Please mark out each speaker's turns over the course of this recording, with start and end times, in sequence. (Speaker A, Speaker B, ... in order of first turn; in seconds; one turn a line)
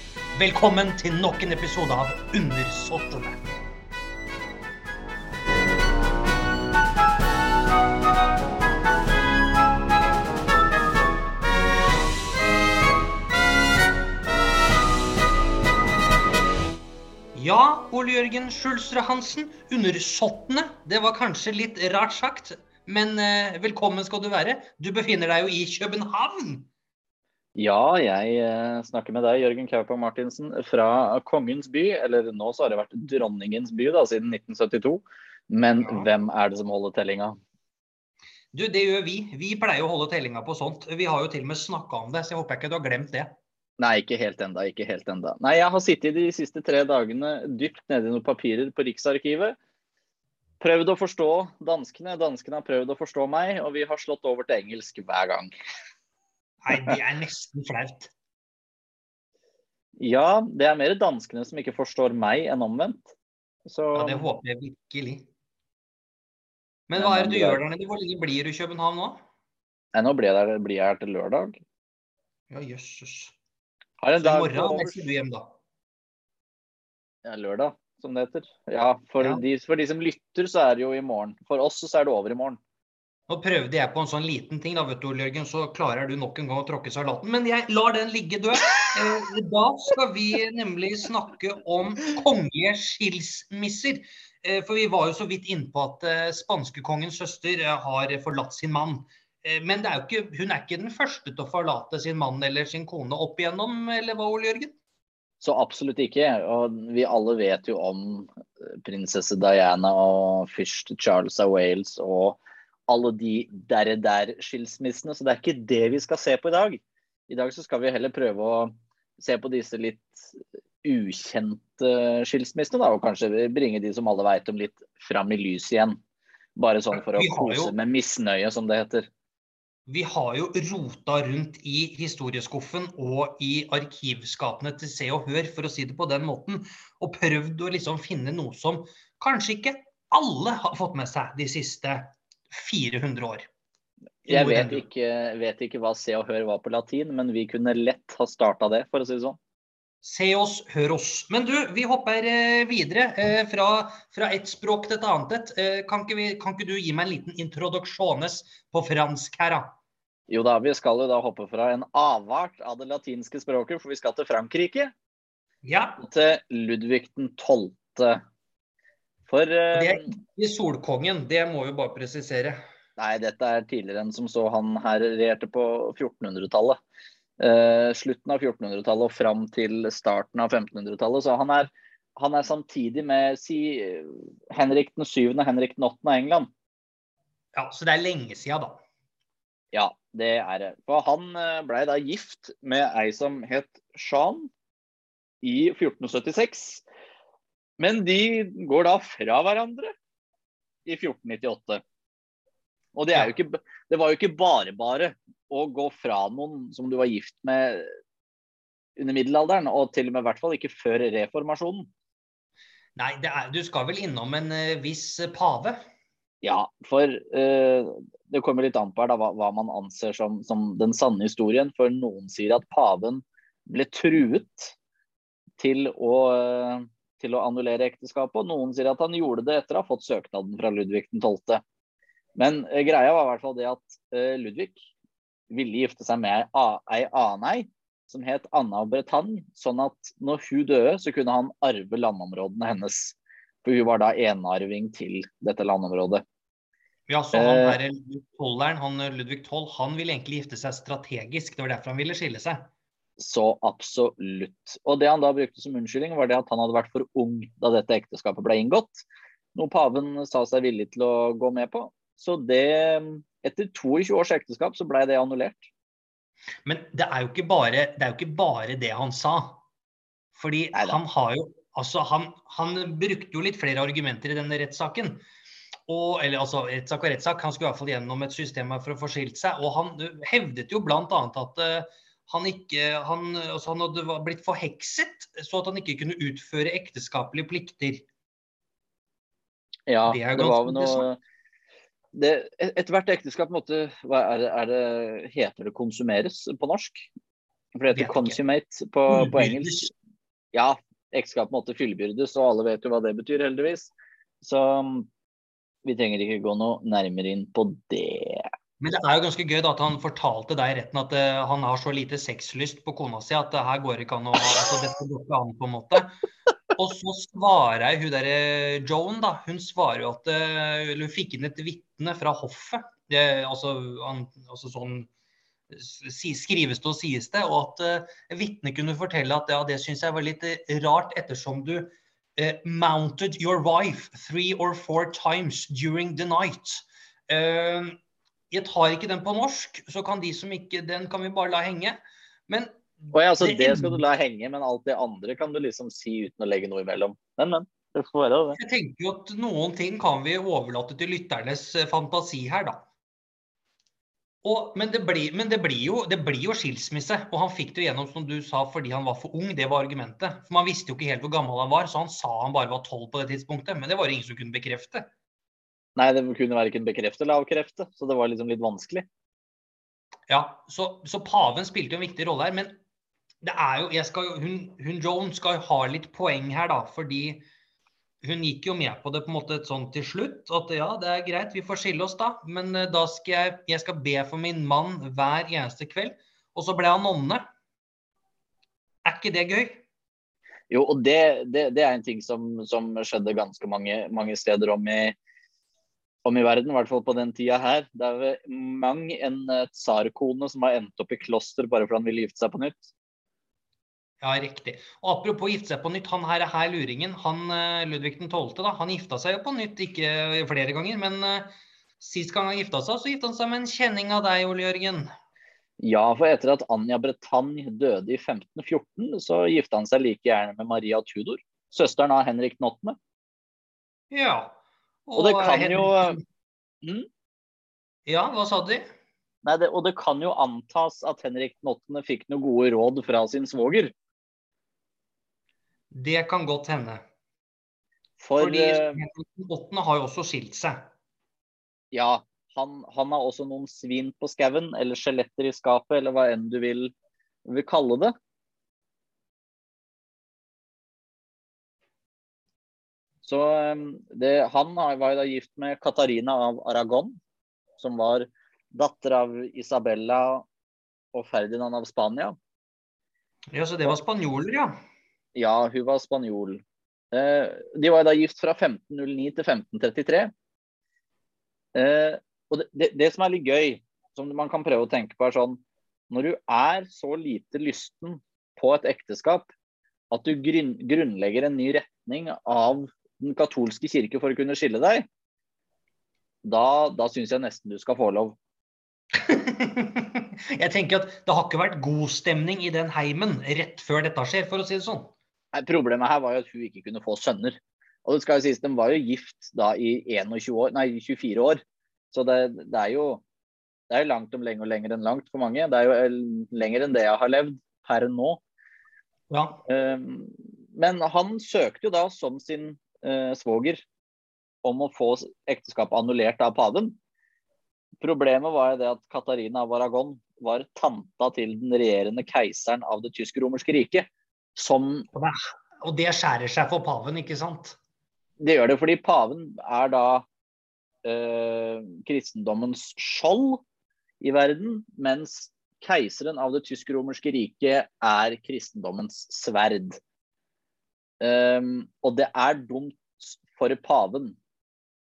Speaker A: 0.3-3.4
Speaker A: 17.3-26.7
Speaker B: 27.6-37.4
Speaker A: 35.8-36.1
Speaker A: 38.5-43.3
Speaker B: 43.8-49.5
Speaker B: 50.6-55.5
Speaker A: 56.6-58.1
Speaker B: 60.0-63.1
Speaker B: 63.6-64.3
Speaker A: 63.9-65.3
Speaker A: 66.9-69.2
Speaker B: 66.9-67.6
Speaker B: 69.9-71.6
Speaker A: 72.5-73.3
Speaker B: 74.0-75.0
Speaker A: 74.2-75.5
Speaker B: 77.2-82.6
Speaker A: 83.3-104.8
Speaker B: 105.4-108.3
Speaker B: 108.8-126.0
Speaker B: 126.5-129.1
Speaker A: 126.9-127.7
Speaker A: 129.9-143.5
Speaker A: 144.2-144.8
Speaker B: 144.2-149.4
Speaker A: 150.0-159.7
Speaker B: 160.3-164.9
Speaker A: 165.6-166.0
Speaker B: 166.0-168.2
Speaker B: 169.3-170.1
Speaker A: 169.7-172.6
Speaker B: 173.0-176.8
Speaker B: 177.4-186.5
Speaker A: 187.5-188.8
Speaker B: 189.7-194.5
Speaker B: 195.4-196.8
Speaker B: 197.8-199.9
Speaker B: 200.8-201.8
Speaker B: 202.9-207.9
Speaker B: 209.0-211.9
Speaker A: 212.9-215.8
Speaker B: 216.4-224.7
Speaker B: 225.6-231.6
Speaker B: 232.4-234.9
Speaker B: 235.5-246.2
Speaker A: 247.1-252.7
Speaker B: 247.3-247.8
Speaker B: 253.2-265.7
Speaker A: 266.6-269.6
Speaker A: 270.3-275.2
Speaker B: 270.7-271.0
Speaker A: 275.9-288.0
Speaker B: 289.9-291.2
Speaker A: 290.1-291.1
Speaker B: 292.1-297.1
Speaker B: 297.8-299.9
Speaker A: 297.9-298.4
Speaker A: 299.1-299.9
Speaker B: 300.5-305.1
Speaker B: 305.8-308.5
Speaker A: 308.8-316.2
Speaker A: 316.8-325.1
Speaker A: 325.7-338.0
Speaker A: 338.5-344.0
Speaker B: 343.1-348.6
Speaker A: 348.6-352.8
Speaker A: 354.4-365.1
Speaker B: 365.9-369.1
Speaker A: 370.3-372.8
Speaker A: 373.4-377.4
Speaker A: 378.2-387.4
Speaker A: 389.0-389.8
Speaker B: 390.7-395.1
Speaker B: 396.2-402.9
Speaker A: 404.2-415.1
Speaker B: 415.8-423.0
Speaker A: 424.1-426.2
Speaker B: 425.2-426.2
Speaker A: 428.1-428.9
Speaker B: 429.4-433.9
Speaker A: 435.9-437.0
Speaker B: 438.2-439.0
Speaker A: 438.4-440.9
Speaker B: 441.9-446.9
Speaker B: 447.4-448.1
Speaker B: 453.2-457.2
Speaker B: 457.8-460.4
Speaker B: 461.1-462.4
Speaker A: 463.5-464.7
Speaker B: 465.4-470.3
Speaker B: 471.7-479.5
Speaker B: 480.1-485.1
Speaker B: 486.4-488.4
Speaker A: 489.1-495.1
Speaker B: 495.5-503.2
Speaker B: 503.9-508.4
Speaker A: 509.3-509.6
Speaker B: 509.6-513.8
Speaker B: 514.6-517.0
Speaker B: 518.0-525.1
Speaker A: 525.1-527.8
Speaker B: 528.4-530.2
Speaker B: 531.0-533.6
Speaker B: 534.2-540.0
Speaker B: 541.2-544.4